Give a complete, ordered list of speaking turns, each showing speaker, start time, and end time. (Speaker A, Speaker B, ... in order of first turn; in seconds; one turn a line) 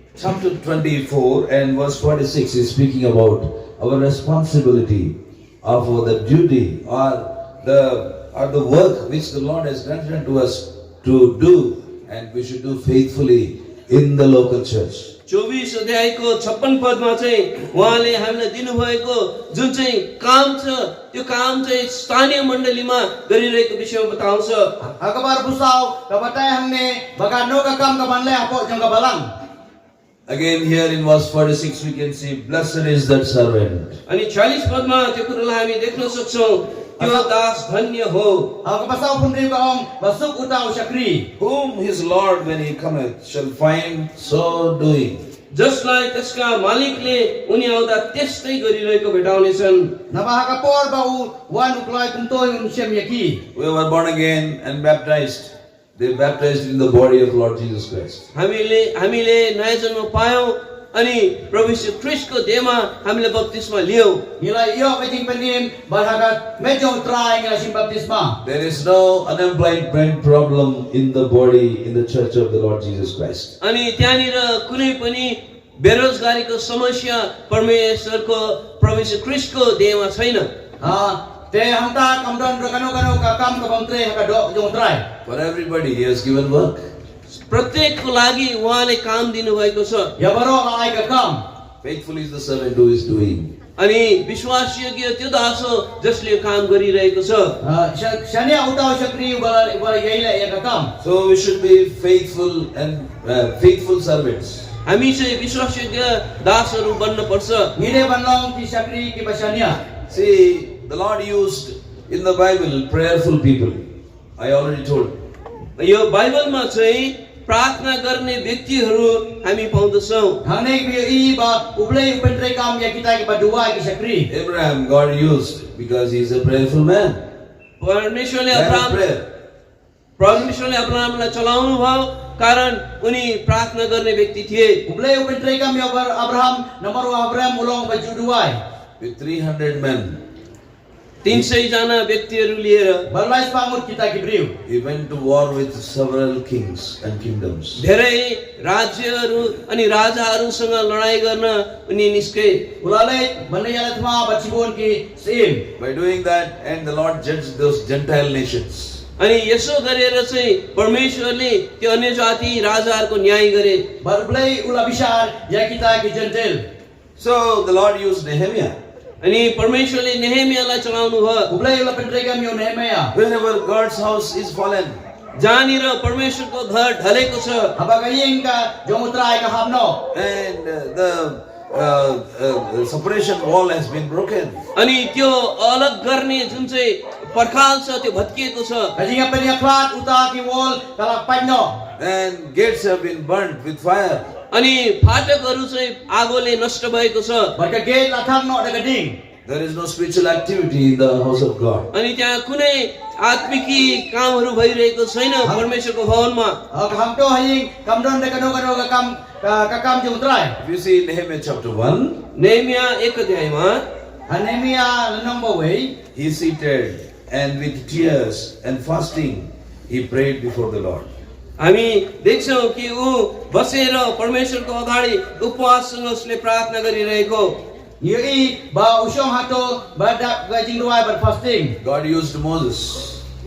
Speaker A: 0.2-15.1
Speaker B: 15.3-24.7
Speaker C: 25.0-29.3
Speaker A: 30.3-34.0
Speaker B: 34.1-38.6
Speaker C: 37.0-37.3
Speaker C: 38.6-41.3
Speaker A: 41.4-45.2
Speaker B: 45.5-50.0
Speaker C: 50.1-53.4
Speaker A: 53.5-58.3
Speaker B: 58.3-64.2
Speaker C: 64.4-68.4
Speaker A: 68.4-73.5
Speaker B: 73.6-80.5
Speaker C: 80.8-85.0
Speaker A: 85.3-86.8
Speaker B: 87.5-90.1
Speaker C: 90.2-91.4
Speaker A: 91.8-93.5
Speaker B: 93.8-97.6
Speaker C: 97.6-100.9
Speaker A: 101.0-104.7
Speaker B: 104.8-107.7
Speaker C: 107.8-109.8
Speaker A: 110.1-115.2
Speaker B: 115.8-120.4
Speaker C: 120.5-124.3
Speaker A: 124.3-127.2
Speaker B: 127.8-129.1
Speaker A: 128.5-129.3
Speaker B: 130.2-134.8
Speaker C: 134.9-138.6
Speaker A: 139.0-140.2
Speaker B: 141.2-143.1
Speaker C: 143.1-144.5
Speaker A: 144.7-147.8
Speaker B: 147.8-152.7
Speaker C: 152.8-155.7
Speaker A: 155.8-159.0
Speaker B: 159.2-163.9
Speaker C: 164.0-166.6
Speaker A: 167.2-168.8
Speaker B: 169.2-171.5
Speaker C: 171.5-173.1
Speaker A: 173.1-175.0
Speaker B: 175.4-177.8
Speaker C: 177.8-180.0
Speaker A: 180.1-184.6
Speaker B: 184.8-188.9
Speaker C: 189.0-191.8
Speaker A: 192.0-194.3
Speaker B: 194.5-197.5
Speaker C: 197.6-199.2
Speaker A: 199.5-201.9
Speaker B: 201.9-206.6
Speaker C: 206.7-210.6
Speaker A: 210.6-212.2
Speaker B: 212.3-213.8
Speaker C: 214.3-215.9
Speaker A: 216.2-221.1
Speaker B: 221.6-227.6
Speaker C: 228.0-231.8
Speaker A: 231.8-233.2